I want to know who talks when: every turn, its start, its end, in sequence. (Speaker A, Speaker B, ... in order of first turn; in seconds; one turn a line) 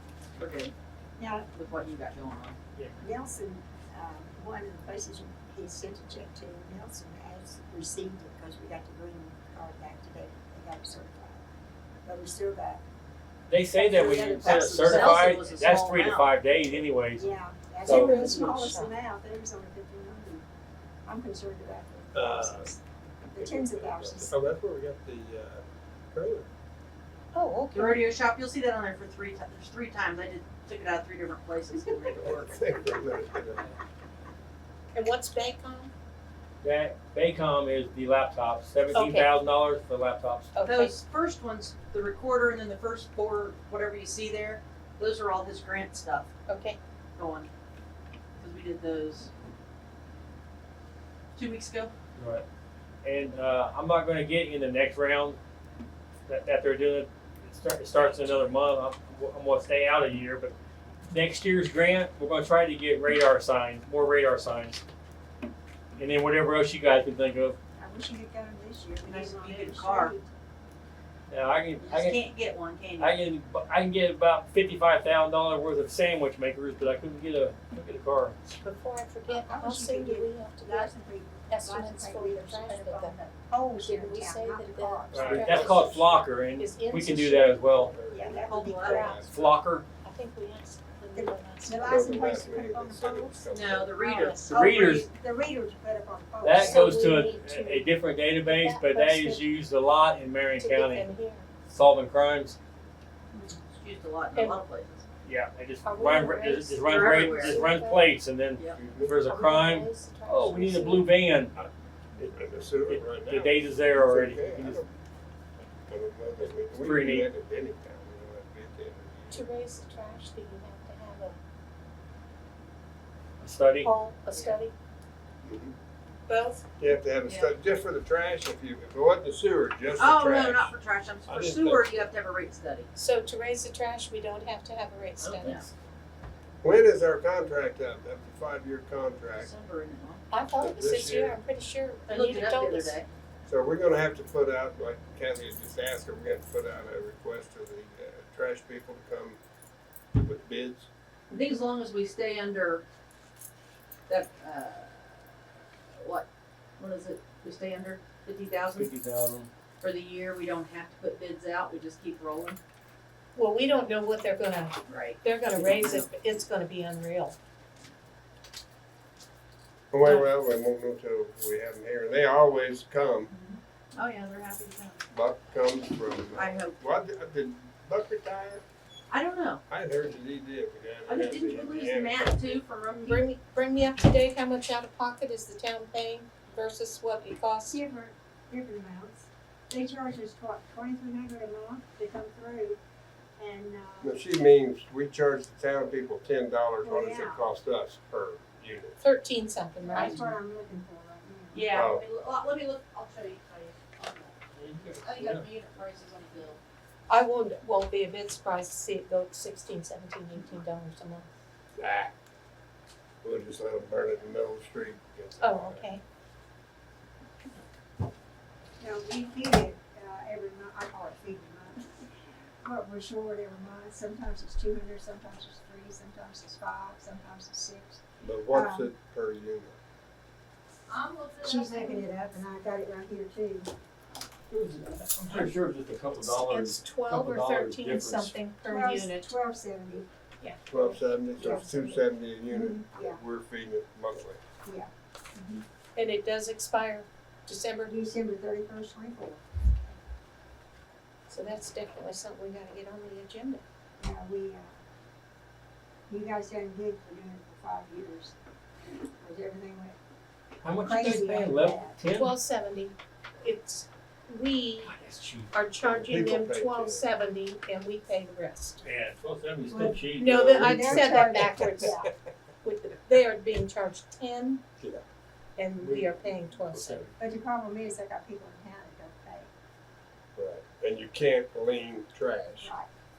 Speaker A: 0.3-0.7
Speaker B: 1.2-1.5
Speaker A: 1.5-2.5
Speaker B: 3.0-11.4
Speaker B: 12.0-12.8
Speaker C: 13.5-18.5
Speaker B: 13.7-15.4
Speaker A: 14.4-16.3
Speaker B: 17.2-20.4
Speaker D: 17.9-18.9
Speaker B: 21.0-22.8
Speaker E: 22.1-22.7
Speaker B: 23.3-24.3
Speaker E: 23.4-26.5
Speaker D: 27.3-28.1
Speaker A: 27.7-32.7
Speaker E: 32.0-33.7
Speaker D: 34.9-35.9
Speaker C: 36.6-40.5
Speaker D: 38.9-39.3
Speaker D: 40.5-40.9
Speaker A: 40.7-46.3
Speaker D: 46.5-46.8
Speaker A: 47.1-47.5
Speaker A: 48.4-49.3
Speaker A: 51.3-51.9
Speaker C: 52.1-52.4
Speaker C: 53.0-55.4
Speaker C: 56.3-60.5
Speaker C: 61.1-64.8
Speaker C: 66.0-67.6
Speaker B: 67.8-70.3
Speaker A: 69.0-70.1
Speaker C: 71.3-72.2
Speaker A: 71.8-73.2
Speaker C: 73.0-78.4
Speaker D: 78.6-80.9
Speaker B: 79.3-85.9
Speaker D: 81.5-83.1
Speaker D: 83.8-87.6
Speaker E: 85.1-85.9
Speaker C: 85.1-87.9
Speaker E: 87.6-89.6
Speaker B: 88.1-89.2
Speaker A: 88.4-89.1
Speaker D: 88.8-89.2
Speaker C: 89.3-89.8
Speaker D: 90.0-91.9
Speaker B: 91.1-93.4
Speaker E: 91.8-94.1
Speaker A: 93.5-94.4
Speaker D: 94.0-94.5
Speaker B: 94.5-97.2
Speaker C: 94.5-95.1
Speaker C: 96.4-101.1
Speaker D: 96.6-97.9
Speaker D: 98.4-99.4
Speaker D: 100.6-101.5
Speaker C: 101.7-102.5
Speaker A: 103.8-105.0
Speaker D: 104.3-104.6
Speaker C: 105.2-111.5
Speaker D: 105.8-108.1
Speaker A: 106.8-107.6
Speaker E: 108.7-109.2
Speaker D: 109.2-111.1
Speaker E: 111.5-114.9
Speaker C: 112.9-114.9
Speaker E: 115.9-119.5
Speaker C: 116.7-117.3
Speaker D: 119.3-121.4
Speaker C: 123.4-123.9
Speaker D: 123.8-124.7
Speaker A: 124.3-124.6
Speaker E: 125.4-125.7
Speaker D: 126.3-126.6
Speaker E: 126.8-132.1
Speaker A: 127.2-127.5
Speaker A: 129.9-132.9
Speaker D: 132.9-135.6
Speaker C: 135.2-135.7
Speaker E: 136.6-139.5
Speaker A: 139.3-140.2
Speaker D: 140.3-143.0
Speaker E: 140.5-141.4
Speaker A: 142.1-143.1
Speaker E: 143.4-149.4
Speaker E: 150.2-150.9
Speaker A: 151.3-152.8
Speaker A: 154.1-155.3
Speaker A: 155.9-156.3
Speaker A: 156.8-158.9
Speaker C: 158.7-159.5
Speaker A: 159.8-162.6
Speaker D: 163.3-167.3
Speaker A: 164.9-166.1
Speaker E: 169.9-173.3
Speaker A: 170.0-170.3
Speaker A: 173.3-175.0
Speaker E: 175.1-178.6
Speaker A: 176.3-176.8
Speaker A: 179.1-179.6
Speaker E: 179.7-182.6
Speaker A: 181.1-183.2
Speaker D: 183.1-187.8
Speaker B: 187.7-192.8
Speaker B: 193.4-194.2
Speaker E: 194.0-199.0
Speaker B: 196.8-197.4
Speaker D: 199.0-200.2
Speaker B: 199.8-201.8
Speaker A: 199.9-200.3
Speaker A: 201.5-204.4
Speaker E: 201.7-202.0
Speaker C: 204.5-205.5
Speaker A: 205.0-206.6
Speaker D: 207.1-211.3
Speaker E: 211.8-212.1
Speaker E: 213.2-215.9
Speaker D: 215.4-216.0
Speaker B: 218.8-221.9
Speaker B: 222.6-228.9
Speaker E: 228.2-229.8
Speaker A: 230.9-232.1
Speaker B: 231.4-233.7
Speaker C: 234.5-238.3
Speaker D: 236.2-239.3
Speaker B: 238.7-240.1
Speaker E: 240.7-244.4
Speaker B: 240.7-243.2
Speaker B: 244.6-245.6
Speaker D: 245.9-247.9
Speaker B: 247.9-249.4
Speaker D: 251.3-253.6
Speaker B: 254.0-254.7
Speaker B: 256.1-258.3
Speaker B: 259.2-260.0
Speaker C: 260.6-262.3
Speaker B: 260.7-262.0
Speaker D: 262.1-264.9
Speaker C: 264.8-265.5
Speaker D: 265.5-268.8
Speaker E: 265.8-267.1
Speaker C: 268.8-270.6
Speaker B: 269.7-272.1
Speaker D: 270.1-272.0
Speaker E: 270.3-271.9
Speaker D: 272.6-274.6
Speaker E: 274.8-275.0
Speaker D: 275.6-277.1
Speaker C: 276.7-277.1
Speaker B: 277.2-279.5
Speaker E: 280.4-282.7
Speaker B: 282.6-282.9